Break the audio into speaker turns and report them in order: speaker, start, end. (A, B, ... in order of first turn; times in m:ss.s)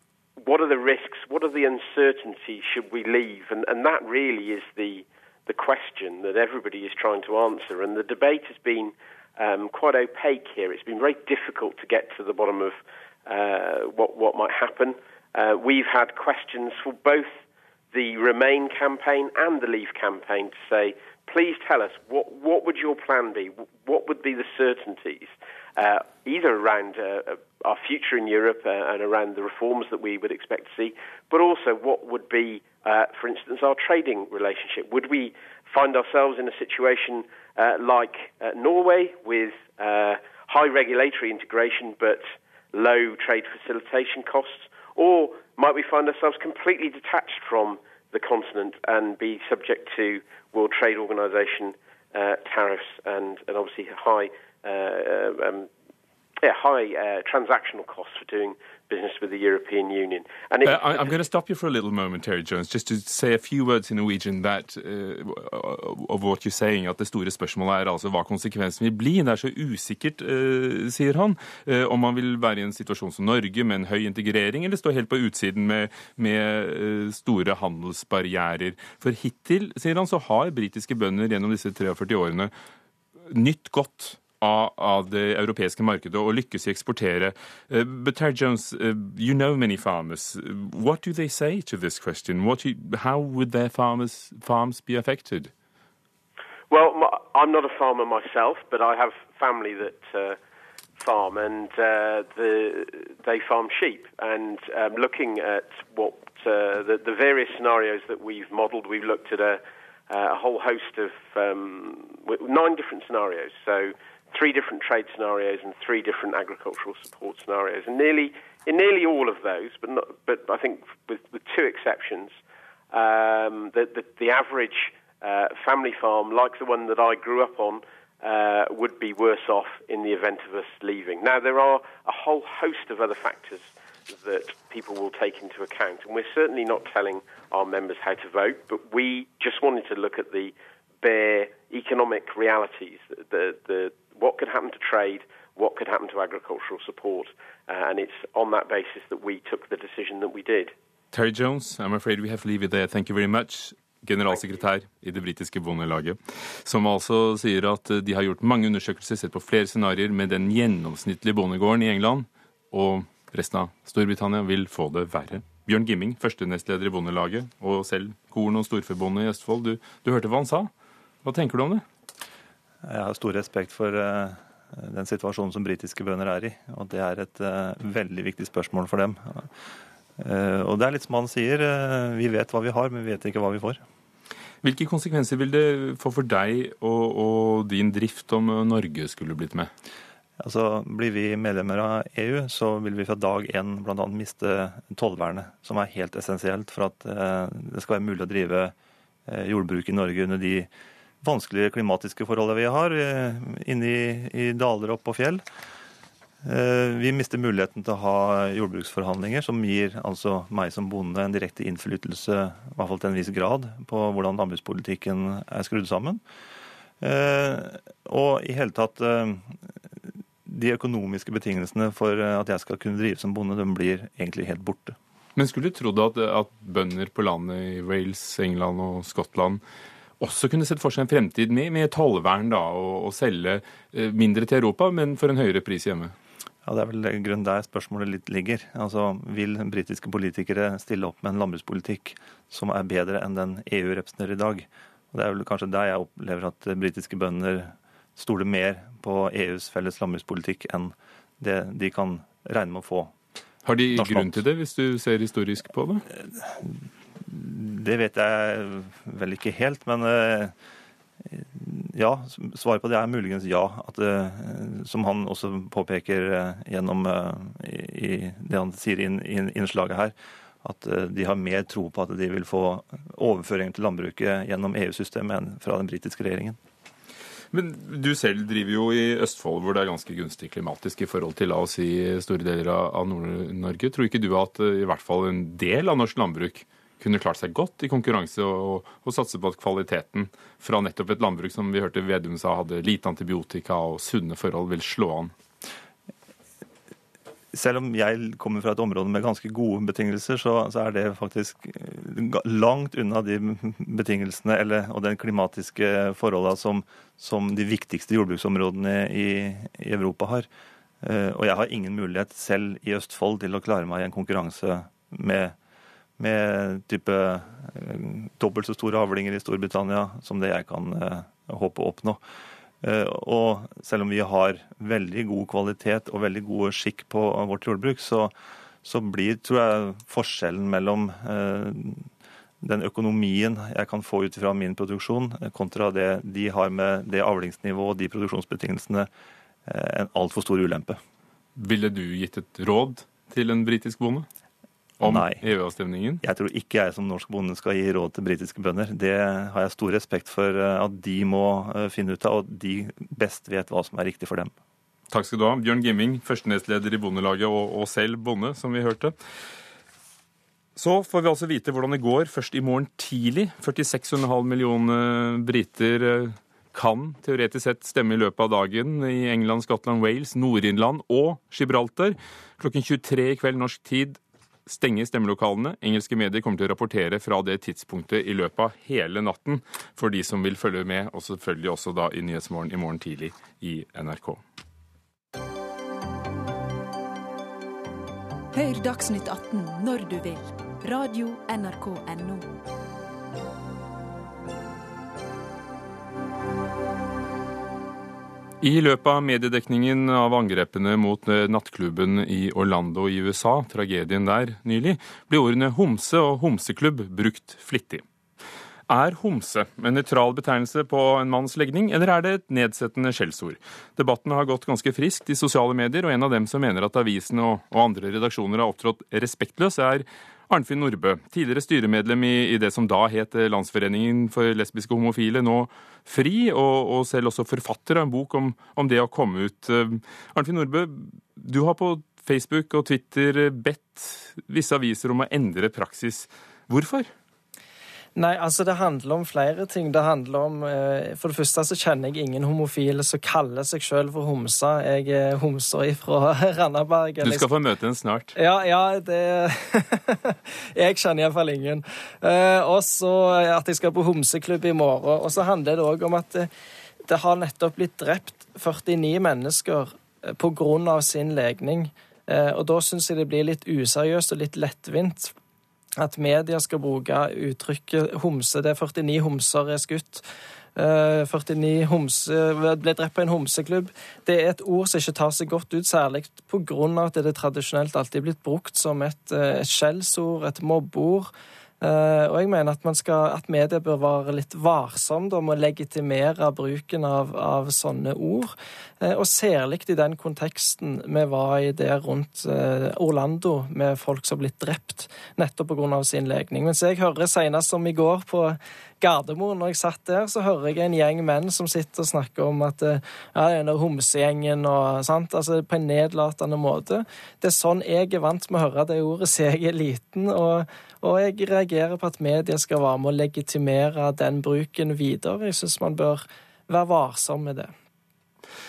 0:00.4-0:55.7 A
0:56.4-1:01.2 A
1:00.6-1:22.5 B
1:23.3-1:35.5 B
1:36.7-1:40.4 A
1:41.0-2:02.4 A
2:02.9-2:30.7 A
2:31.1-2:50.7 B
2:51.2-2:51.8 B
2:52.8-2:59.5 C
3:00.2-3:03.8 C
3:04.6-3:09.7 B
3:10.4-3:18.7 C
3:19.3-3:20.7 C
3:21.2-3:25.4 C
3:26.4-3:36.2 C
3:37.0-3:39.5 C
3:40.4-3:45.0 C
3:45.4-3:49.6 B
3:50.2-3:56.1 B
3:56.6-4:13.1 C
4:13.6-4:16.0 B
4:14.0-4:14.4 C
4:16.4-4:20.5 C
4:21.3-4:36.6 C
4:37.5-4:55.3 B
4:57.5-5:10.5 C
5:11.0-5:15.6 C
5:16.2-5:22.2 C
5:22.8-5:32.1 C
5:32.6-5:39.1 C
5:39.7-5:41.0 C
5:41.6-5:44.3 B
5:45.0-5:46.2 B
5:45.0-5:45.4 C
5:46.2-5:54.5 C
5:55.1-5:59.2 B
6:00.8-6:24.4 B
6:28.5-6:32.5 D
6:38.6-6:48.0 B
6:48.9-7:17.1 B
7:18.2-7:27.5 E
7:27.2-7:28.3 B
7:28.4-7:36.5 E
7:37.1-7:45.3 E
7:46.0-7:50.2 E
7:50.8-8:01.3 E
8:01.8-8:37.7 E